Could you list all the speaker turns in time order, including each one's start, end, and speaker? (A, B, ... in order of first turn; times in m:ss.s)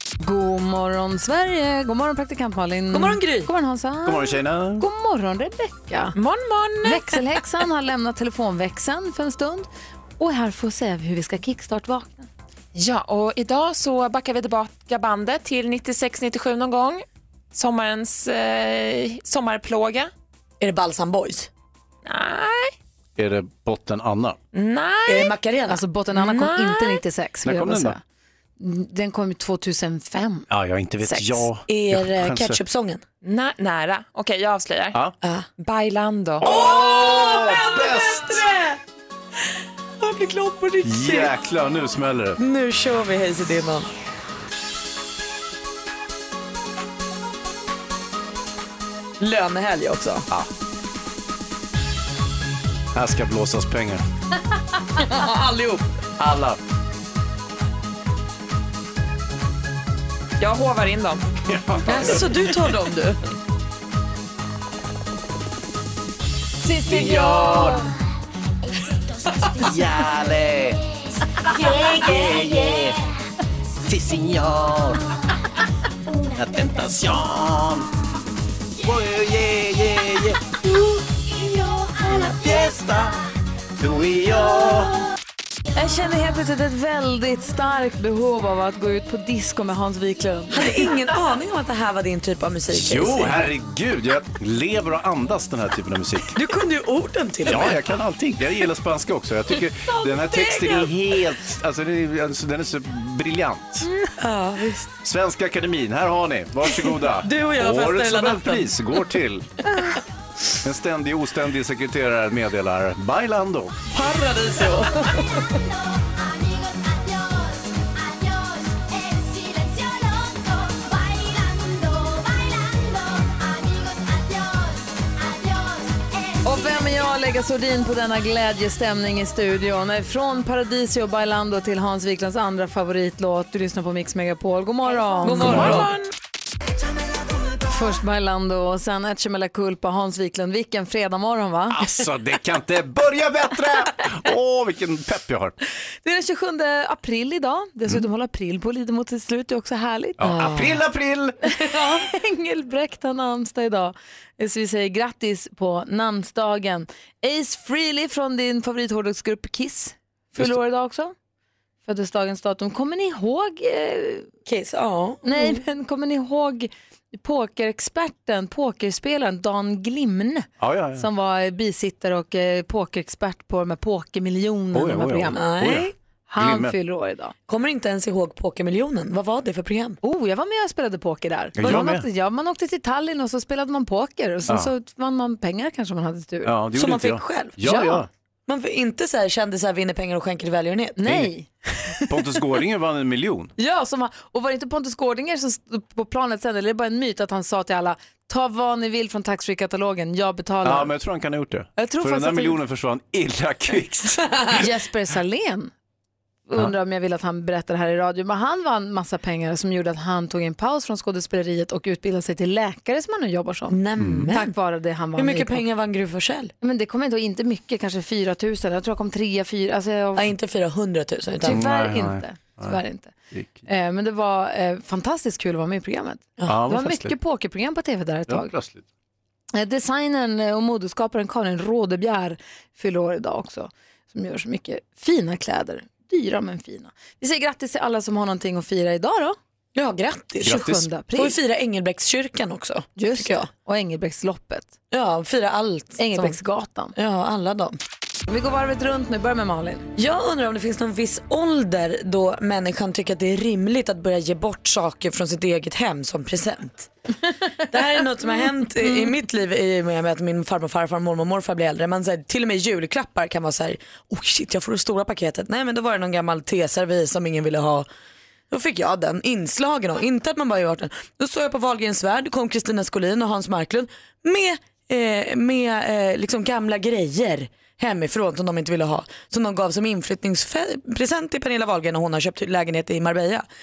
0:00.2-0:06.1 A
0:02.9-0:03.5 B
0:04.0-0:04.8 C
0:06.1-0:07.0 D
0:06.8-0:09.7 A
0:10.2-0:12.3 A
0:12.7-0:20.1 D
0:20.6-0:21.5 B
0:22.0-0:22.7 D
0:23.2-0:24.4 C
0:24.5-0:25.3 D
0:25.0-0:25.8 B
0:25.7-0:28.0 A
0:26.1-0:27.0 D
0:27.4-0:27.9 C
0:28.6-0:30.5 A
0:30.5-0:32.6 C
0:31.7-0:33.0 B
0:33.2-0:35.0 D
0:35.2-0:35.5 B
0:35.6-0:36.5 D
0:36.4-0:38.8 B
0:36.4-0:38.4 C
0:40.0-0:41.3 B
0:40.8-0:42.4 C
0:42.4-0:43.9 B
0:49.2-0:50.3 B
0:52.9-0:54.0 C
0:55.0-0:55.8 B
0:56.2-0:56.6 C
1:00.4-1:01.2 D
1:01.5-1:02.4 C
1:01.8-1:03.2 B
1:06.6-1:07.8 A
1:06.9-1:07.8 C
1:07.0-1:08.0 E
1:08.8-1:13.2 E
1:09.6-1:10.8 C
1:12.2-1:12.9 C
1:13.9-1:15.0 C
1:14.9-1:15.4 E
1:16.0-1:17.2 E
1:16.4-1:17.8 C
1:18.8-1:20.4 C
1:21.0-1:23.0 E
1:22.6-1:23.1 C
1:23.8-1:24.9 C
1:24.3-1:24.9 E
1:25.7-1:30.7 A
1:30.5-1:33.4 B
1:32.7-1:36.4 C
1:36.3-1:37.8 B
1:37.4-1:43.9 C
1:39.9-1:40.9 B
1:44.2-1:44.9 B
1:45.0-1:49.7 C
1:46.6-1:48.7 B
1:50.6-1:53.8 C
1:53.9-1:55.4 B
1:55.1-2:07.0 E
2:06.4-2:15.9 A
2:15.2-2:15.9 B
2:15.4-2:16.0 D
2:17.7-2:21.9 A
2:21.7-2:25.5 C
2:26.0-2:30.5 A
2:30.2-2:31.4 C
2:30.3-2:30.7 B
2:31.4-2:41.1 A
2:41.8-2:44.3 A
2:44.4-2:45.6 B
2:45.2-2:55.7 A
2:50.6-2:51.1 C
2:54.7-2:56.7 C
2:55.3-2:55.9 B
2:56.3-2:57.3 A
2:57.5-3:00.0 B
3:00.0-3:06.5 A
3:01.6-3:02.1 C
3:06.4-3:08.1 C
3:06.7-3:07.6 B
3:07.6-3:08.0 A
3:08.5-3:11.1 B
3:11.0-3:12.0 A
3:12.1-3:13.5 C
3:13.6-3:20.9 A
3:20.6-3:24.6 C
3:21.8-3:22.6 A
3:24.5-3:25.7 A
3:26.5-3:35.6 A
3:33.7-3:34.5 B
3:34.0-3:34.3 C
3:35.2-3:36.5 B
3:36.6-3:40.3 A
3:40.2-3:41.6 B
3:41.4-3:43.1 A
3:41.4-3:42.8 C
3:43.3-3:43.6 C
3:43.6-3:48.5 A
3:46.4-3:47.1 C
3:48.3-3:48.8 C
3:49.5-3:59.4 A
3:59.7-4:03.5 B
4:00.4-4:00.8 C
4:00.5-4:01.4 A
4:03.0-4:04.7 A
4:04.9-4:06.4 B
4:06.0-4:06.9 A
4:07.0-4:07.8 B
4:08.3-4:09.9 A
4:10.0-4:16.9 B
4:17.7-4:27.9 B
4:18.8-4:19.1 A
4:28.5-4:43.4 B